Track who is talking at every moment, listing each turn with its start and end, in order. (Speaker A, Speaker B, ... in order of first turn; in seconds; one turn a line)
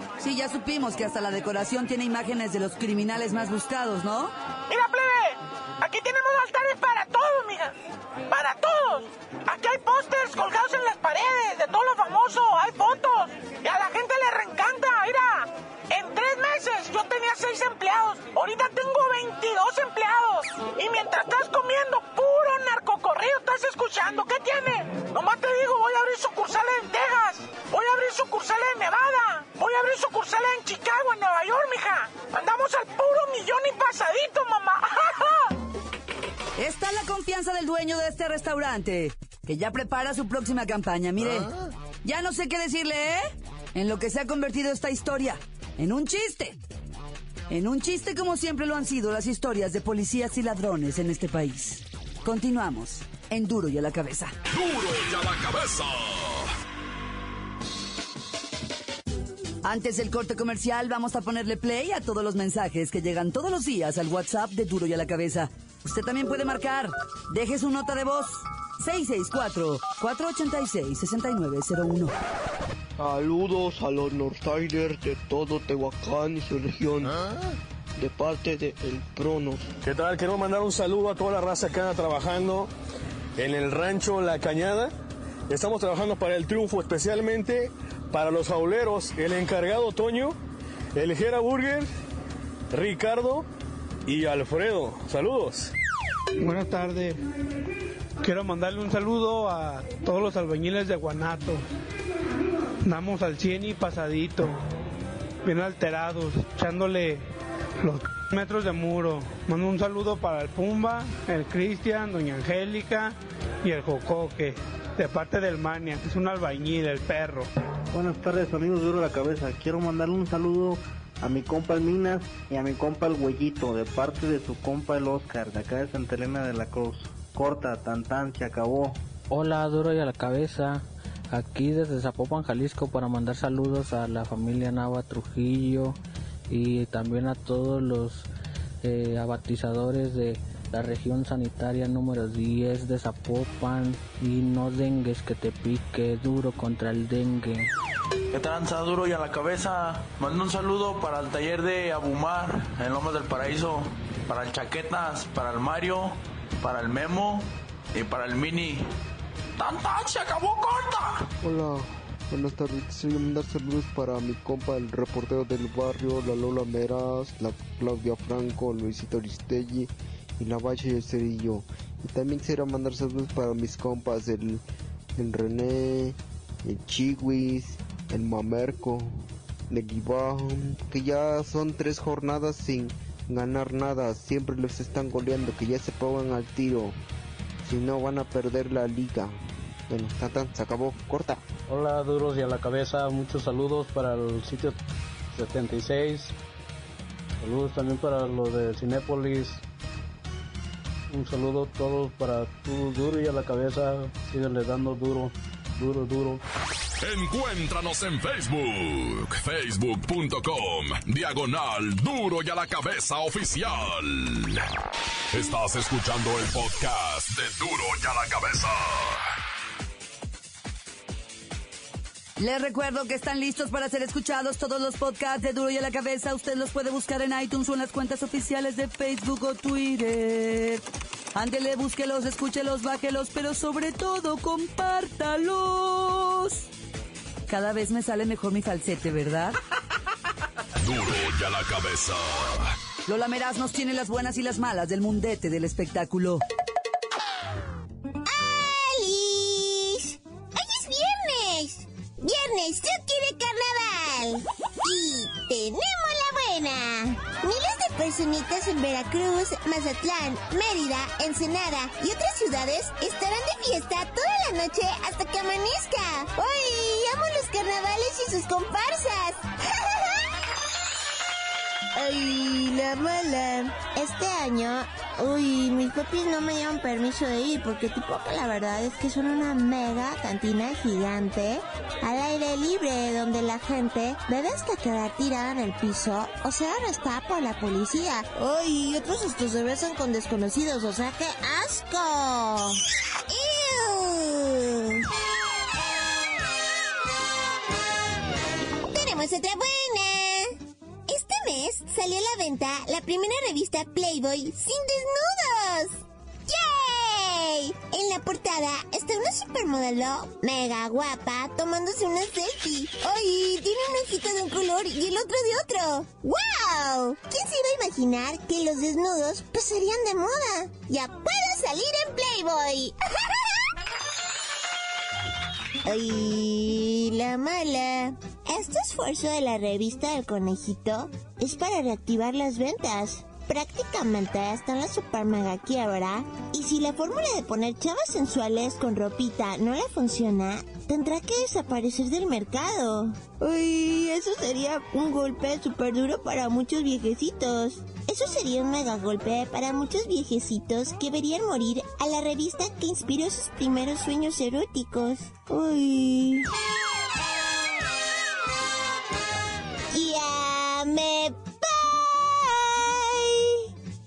Speaker A: 0.2-4.3
Speaker B: 4.7-7.8
Speaker B: 8.3-35.5
Speaker A: 36.6-46.6
Speaker A: 47.5-54.3
Speaker C: 54.5-56.5
Speaker A: 59.6-72.1
Speaker D: 73.0-77.2
Speaker D: 78.0-79.7
Speaker E: 79.8-82.7
Speaker E: 83.4-84.9
Speaker E: 85.5-90.4
Speaker E: 91.0-91.9
Speaker E: 92.7-93.5
Speaker E: 94.1-95.7
Speaker F: 96.4-97.2
Speaker F: 98.2-101.6
Speaker F: 102.8-104.6
Speaker F: 105.5-107.3
Speaker F: 107.8-117.5
Speaker G: 117.9-129.0
Speaker H: 129.3-136.0
Speaker H: 136.5-138.3
Speaker H: 138.8-147.7
Speaker I: 148.3-158.9
Speaker I: 159.6-161.3
Speaker J: 161.4-174.6
Speaker J: 175.2-187.0
Speaker J: 187.6-189.3
Speaker J: 189.9-191.4
Speaker G: 191.7-193.0
Speaker K: 191.7-194.8
Speaker G: 193.8-194.1
Speaker K: 195.4-196.3
Speaker K: 197.4-199.6
Speaker G: 199.0-199.2
Speaker K: 201.1-206.4
Speaker G: 201.7-203.2
Speaker G: 204.1-205.0
Speaker G: 205.8-206.3
Speaker C: 207.0-214.7
Speaker C: 215.3-219.3
Speaker A: 222.4-230.8
Speaker A: 231.3-236.7
Speaker A: 237.5-239.6
Speaker C: 240.8-242.8
Speaker A: 243.1-246.4
Speaker L: 248.2-270.1
Speaker L: 271.9-295.0
Speaker L: 298.9-323.4
Speaker L: 325.9-356.5
Speaker L: 359.9-363.6